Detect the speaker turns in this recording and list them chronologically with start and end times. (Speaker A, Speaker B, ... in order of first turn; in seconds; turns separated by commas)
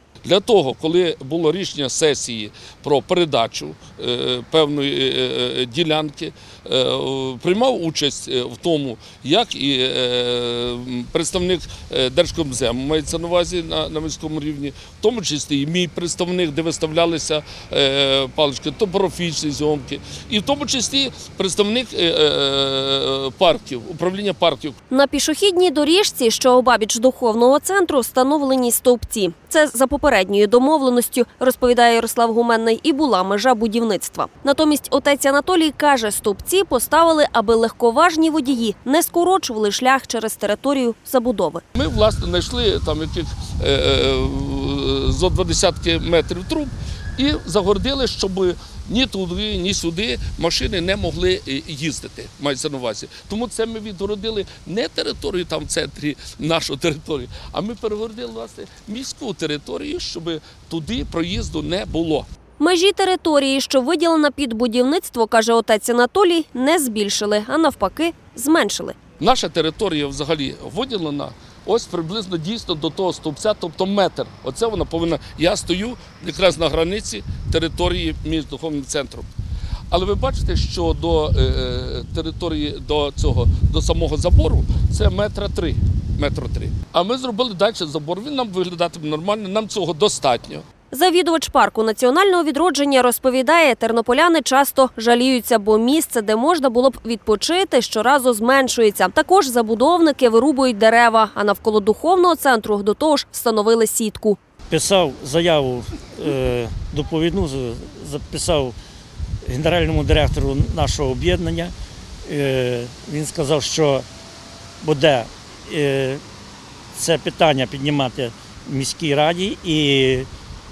Speaker A: 0.2-24.8, Speaker B: 24.9-41.6, Speaker A: 41.8-62.3, Speaker B: 62.6-69.0, Speaker A: 69.2-79.3, Speaker A: 79.9-90.7, Speaker B: 90.9-104.4, Speaker C: 104.7-108.8, Speaker C: 109.4-111.7, Speaker C: 112.2-114.0, Speaker C: 114.8-116.2, Speaker C: 116.9-120.3